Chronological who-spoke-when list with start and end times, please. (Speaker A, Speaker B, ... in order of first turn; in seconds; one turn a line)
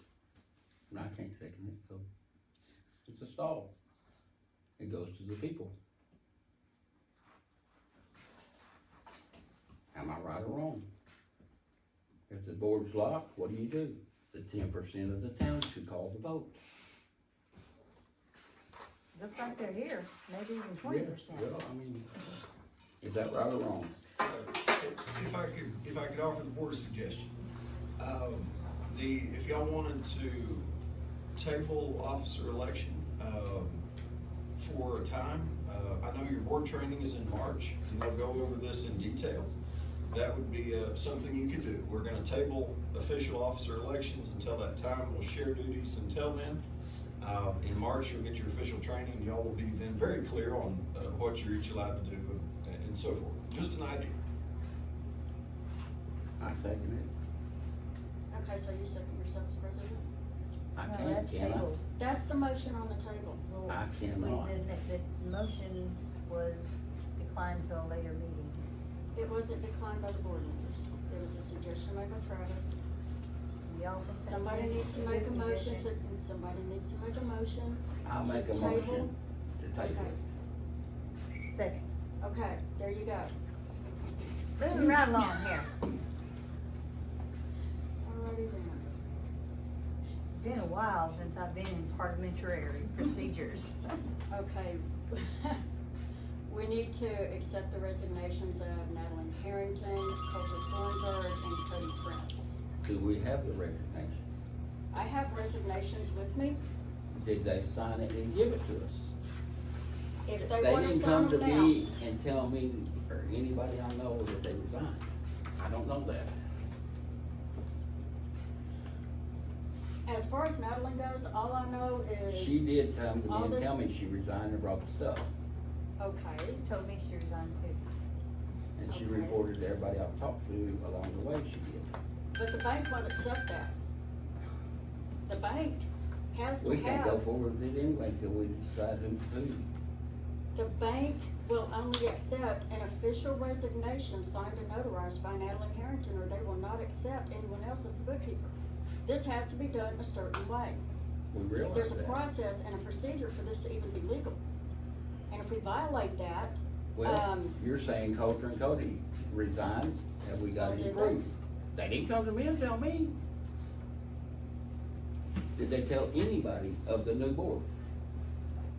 Speaker A: 0.9-2.0
Speaker A: 3.0-3.7
Speaker A: 4.8-5.7
Speaker A: 9.9-10.8
Speaker A: 12.3-16.6
Speaker B: 19.1-21.5
Speaker A: 20.8-22.1
Speaker A: 23.0-24.0
Speaker C: 24.2-27.3
Speaker C: 28.0-30.7
Speaker C: 31.3-33.8
Speaker C: 34.6-39.5
Speaker C: 40.1-46.6
Speaker C: 47.2-54.1
Speaker A: 56.4-57.1
Speaker D: 58.3-60.0
Speaker A: 60.7-61.7
Speaker B: 60.8-61.8
Speaker D: 62.0-63.4
Speaker B: 63.4-68.6
Speaker A: 63.6-64.6
Speaker D: 69.1-72.7
Speaker B: 73.7-75.9
Speaker D: 74.2-79.1
Speaker A: 78.0-80.2
Speaker D: 79.8-80.2
Speaker B: 81.5-81.9
Speaker D: 82.2-83.3
Speaker B: 84.6-85.7
Speaker D: 84.7-85.0
Speaker D: 88.0-89.3
Speaker B: 90.3-93.9
Speaker D: 94.3-95.6
Speaker D: 96.5-102.6
Speaker A: 102.8-104.2
Speaker D: 104.9-106.6
Speaker A: 107.1-109.1
Speaker D: 110.2-111.8
Speaker A: 110.5-115.0
Speaker A: 115.6-116.3
Speaker D: 120.0-122.6
Speaker A: 122.3-125.3
Speaker D: 123.3-123.8
Speaker D: 126.0-126.6
Speaker B: 126.6-127.8
Speaker A: 128.8-131.9
Speaker D: 128.9-129.4
Speaker D: 132.3-133.7
Speaker D: 135.3-137.2
Speaker A: 136.6-139.7
Speaker D: 140.5-148.5
Speaker D: 149.0-150.8
Speaker A: 151.3-152.2
Speaker D: 151.7-154.4
Speaker D: 155.3-157.6
Speaker A: 156.9-163.2
Speaker D: 160.6-161.2
Speaker A: 165.6-167.7